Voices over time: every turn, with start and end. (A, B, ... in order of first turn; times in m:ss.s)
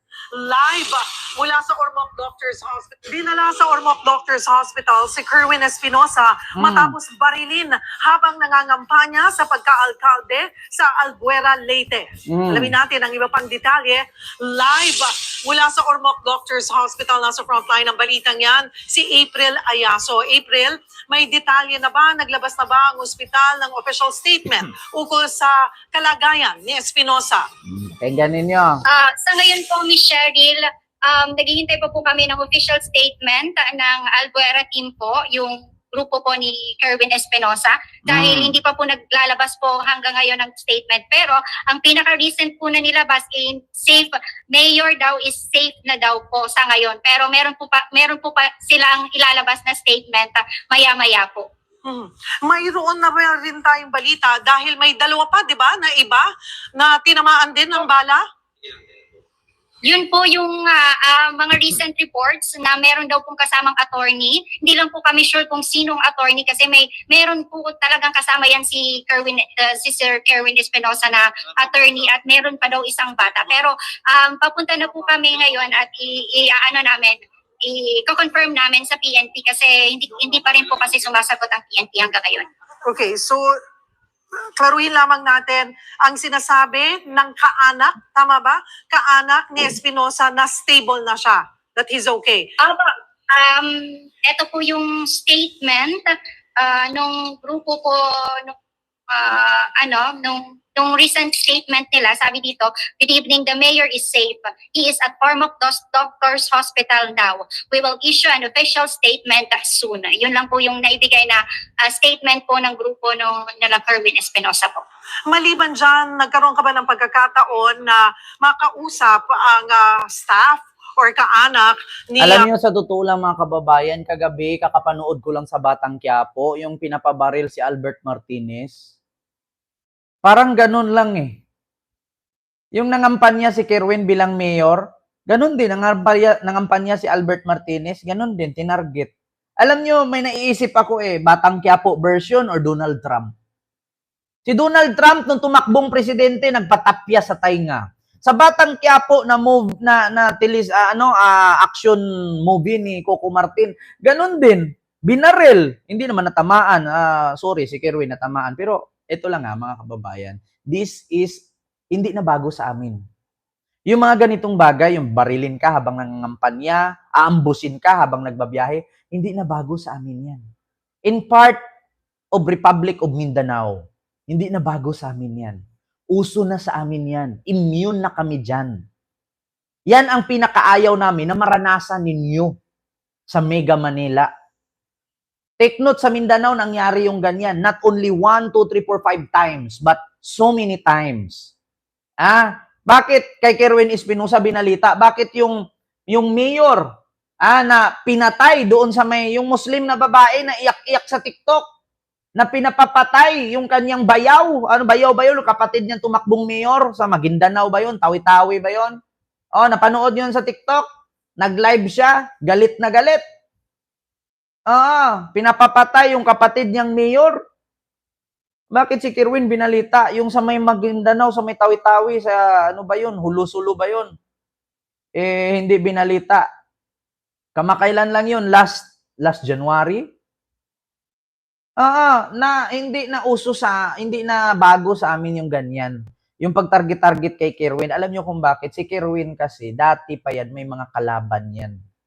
0:00.3-0:27.5 A
0:06.6-0:06.9 B
0:12.3-0:12.7 B
0:27.7-0:28.8 B
0:28.9-0:51.5 C
0:38.1-0:38.6 B
0:51.8-0:58.2 A
0:59.8-1:22.5 C
1:22.8-1:23.6 A
1:24.3-1:32.5 A
1:32.6-1:38.5 C
1:39.1-1:54.8 C
1:55.3-2:02.5 A
2:02.2-2:08.8 B
2:10.2-2:11.4 B
2:12.8-2:19.1 B
2:19.6-2:23.3 B
2:24.4-2:41.4 B
2:41.9-2:43.0 B
2:43.9-2:50.4 B
2:51.1-2:51.6 B
2:52.4-2:53.8 B
2:54.3-2:55.6 B
2:56.1-2:58.7 B
2:59.9-3:02.5 B
3:03.3-3:04.3 B
3:05.6-3:11.5 B
3:12.2-3:15.6 B
3:16.1-3:16.8 B
3:17.4-3:21.6 B
3:22.4-3:29.0 B
3:29.6-3:30.8 B
3:31.4-3:33.2 B
3:34.7-3:37.4 B
3:38.7-3:44.1 B
3:45.2-3:46.4 B
3:47.6-3:50.0 B
3:51.8-4:01.7 B